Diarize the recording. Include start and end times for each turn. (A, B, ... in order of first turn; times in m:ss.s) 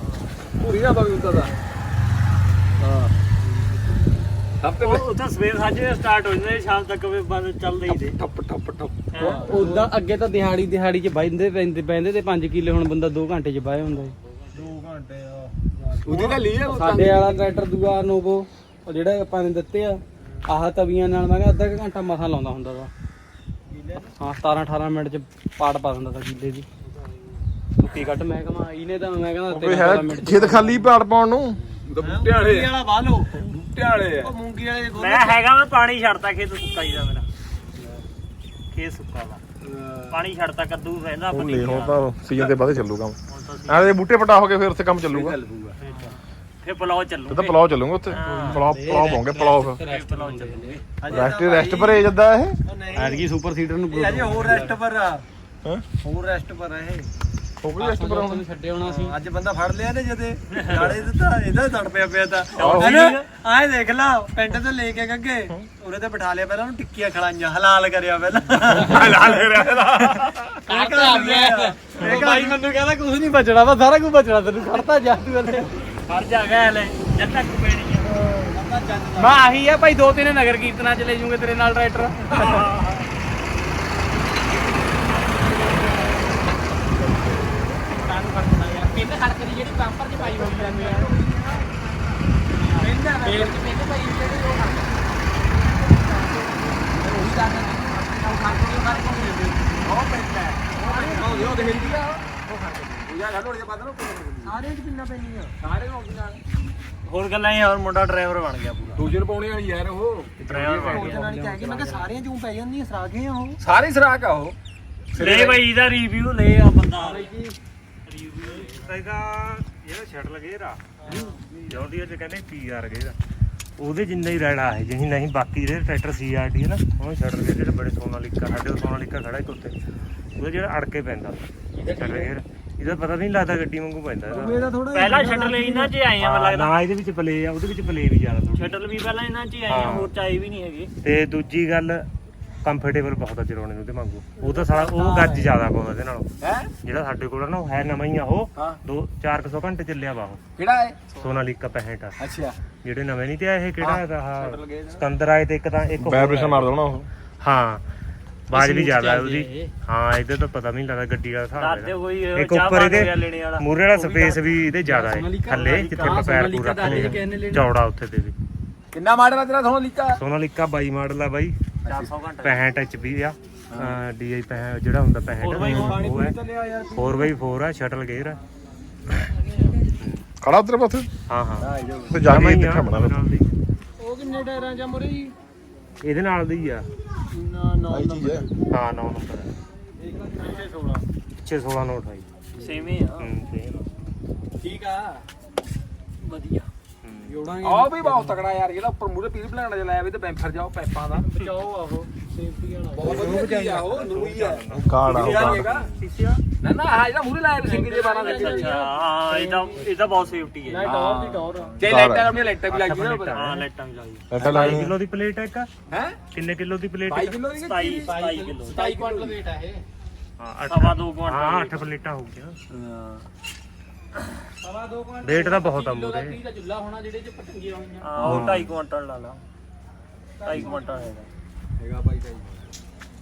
0:00.6-0:01.5 A
0:02.8-0:03.1 A
0:04.6-0:05.1 A
0:04.8-0:08.2 B
0:07.9-0:09.8 A
0:09.1-0:09.5 B
0:09.2-0:09.8 C
0:09.2-0:14.1 D
0:14.5-0:16.4 C
0:16.0-0:17.4 A
0:16.6-0:22.9 D
0:23.7-0:24.2 C
0:24.2-0:26.6 D
0:27.8-0:30.9 D
0:29.5-0:31.6 E
0:31.9-0:32.7 A
0:32.0-0:33.3 C
0:33.4-0:34.3 A
0:34.2-0:35.4 C
0:34.9-0:37.2 B
0:38.7-0:39.4 B
0:39.6-0:40.2 A
0:40.1-0:42.0 B
0:41.3-0:43.2 E
0:43.3-0:44.0 B
0:43.7-0:45.4 E
0:45.1-0:45.7 A
0:45.8-0:46.1 C
0:46.6-0:47.5 B
0:47.3-0:49.8 E
0:48.1-0:48.7 B
0:48.3-0:50.8 D
0:49.8-0:50.9 B
0:51.0-0:52.1 C
0:51.1-0:52.6 E
0:52.6-0:53.2 C
0:52.9-0:54.8 D
0:53.9-0:55.2 C
0:56.0-0:57.1 C
0:57.6-0:58.4 E
0:57.8-0:59.2 D
0:58.8-1:09.4 C
1:00.5-1:00.8 B
1:02.6-1:03.2 E
1:08.9-1:09.4 D
1:09.0-1:09.8 F
1:10.6-1:12.6 C
1:10.7-1:15.7 D
1:16.1-1:18.2 B
1:18.2-1:19.4 C
1:19.2-1:22.6 D
1:22.4-1:23.0 B
1:27.9-1:28.9 C
1:27.9-1:28.8 B
1:28.8-1:31.1 D
1:30.2-1:31.9 C
1:32.5-1:34.9 D
1:32.8-1:33.6 A
1:32.8-1:33.5 C
1:35.3-1:39.3 C
1:37.0-1:39.9 D
1:38.3-1:38.9 A
1:40.7-1:42.9 C
1:40.8-1:41.9 D
1:41.0-1:42.2 A
1:43.0-1:44.5 A
1:44.4-1:45.5 C
1:45.6-1:46.4 A
1:47.0-1:49.1 B
1:49.0-1:51.1 A
1:50.4-1:51.3 B
1:50.7-1:51.1 F
1:50.9-1:53.6 C
1:51.0-1:52.0 D
1:53.6-1:54.5 A
1:55.1-1:55.6 A
1:55.1-1:57.3 B
1:56.9-1:57.5 C
1:58.1-1:58.7 B
1:58.6-2:03.1 F
2:01.0-2:01.4 C
2:03.8-2:09.8 F
2:10.4-2:14.7 F
2:11.8-2:12.3 A
2:14.3-2:15.9 C
2:14.9-2:16.7 B
2:16.2-2:18.8 F
2:18.5-2:20.9 B
2:19.7-2:20.1 F
2:21.0-2:22.0 F
2:22.6-2:26.3 F
2:24.4-2:24.9 C
2:26.4-2:26.7 A
2:26.8-2:30.4 F
2:30.6-2:31.4 A
2:31.2-2:32.2 F
2:32.2-2:32.6 A
2:32.8-2:36.7 F
2:33.8-2:35.0 A
2:36.0-2:37.1 E
2:37.4-2:37.8 F
2:38.5-2:48.3 F
2:38.5-2:39.7 D
2:41.5-2:44.5 B
2:44.8-2:47.7 D
2:45.6-2:46.2 B
2:48.9-2:50.2 A
2:50.2-2:51.5 F
2:51.8-2:52.1 A
2:51.9-2:52.6 B
2:52.4-2:56.3 F
2:53.7-2:54.0 A
2:55.4-2:56.2 A
2:55.6-2:56.0 E
2:55.8-2:57.3 C
2:56.9-2:58.4 F
3:00.0-3:00.2 F
3:00.4-3:01.1 E
3:01.3-3:03.5 F
3:01.6-3:02.2 A
3:02.0-3:03.2 E
3:04.0-3:05.3 C
3:06.0-3:06.8 F
3:07.3-3:08.5 C
3:07.9-3:08.4 E
3:08.7-3:09.5 F
3:10.0-3:11.0 C
3:11.4-3:12.2 F
3:12.6-3:13.3 C
3:13.2-3:13.8 F
3:14.6-3:15.0 C
3:16.3-3:16.6 C
3:17.0-3:17.4 F
3:17.3-3:17.9 C
3:17.4-3:18.4 D
3:17.6-3:21.3 A
3:21.3-3:23.4 C
3:22.9-3:25.9 A
3:23.0-3:26.4 F
3:24.8-3:25.7 E
3:26.6-3:28.8 A
3:27.6-3:29.8 C
3:28.2-3:31.0 B
3:30.6-3:31.8 C
3:30.8-3:33.4 A
3:31.8-3:32.4 E
3:32.6-3:33.7 F
3:33.3-3:34.3 B
3:34.3-3:34.9 E
3:34.4-3:35.7 F
3:34.4-3:34.9 A
3:35.9-3:36.2 A
3:36.3-3:37.4 F
3:37.1-3:39.4 A
3:37.5-3:38.8 B
3:38.0-3:39.8 D
3:40.4-3:42.6 F
3:40.7-3:41.9 B
3:42.7-3:43.2 A
3:44.6-3:48.5 D
3:45.2-3:46.4 F
3:48.0-3:49.4 B
3:48.2-3:48.7 F
3:50.4-3:51.1 D
3:50.4-3:51.2 B
3:50.4-3:51.0 C
3:51.8-3:52.7 A